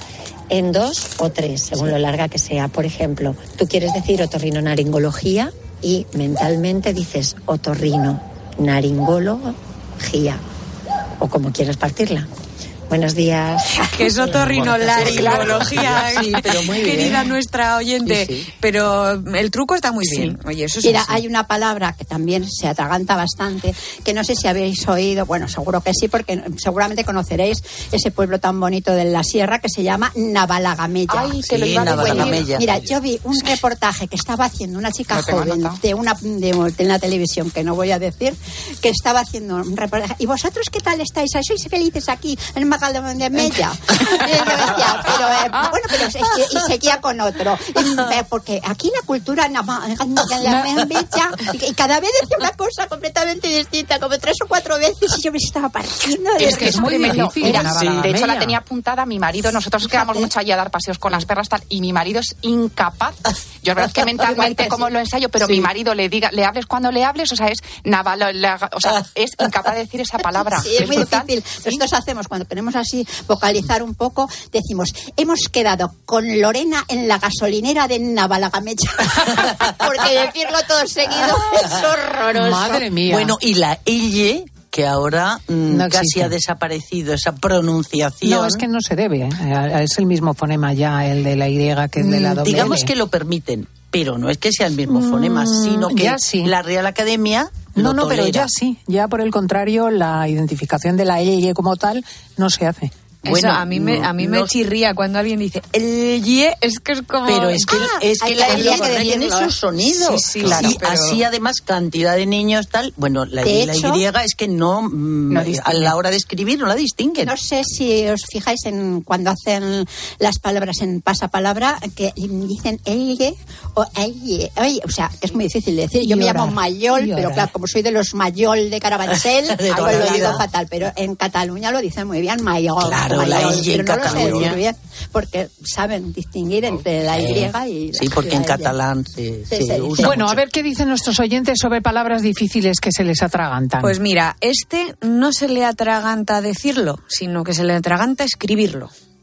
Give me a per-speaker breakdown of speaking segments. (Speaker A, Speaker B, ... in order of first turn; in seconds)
Speaker A: 0.5-10.4, 11.2-12.3, 12.9-13.9, 14.8-17.1
Speaker B: 13.7-21.2, 103.2-109.1, 109.8-111.2, 143.8-148.9
Speaker C: 20.0-20.3, 31.4-32.8, 83.1-88.6, 92.0-98.5, 103.2-104.5, 107.2-117.3, 129.6-130.4, 132.8-134.6, 137.1-140.4
Speaker D: 20.8-57.8, 59.9-60.2, 64.2-64.9, 70.5-82.8, 107.7-109.6, 113.4-114.0, 117.2-138.7, 139.5-140.2
Speaker E: 31.1-32.5, 35.1-35.8, 56.4-71.8, 115.3-115.9, 129.7-130.3
Speaker F: 56.4-58.5, 82.3-83.3, 85.7-86.3, 88.2-92.9, 94.9-96.5, 97.7-102.9, 126.0-126.4, 140.0-144.0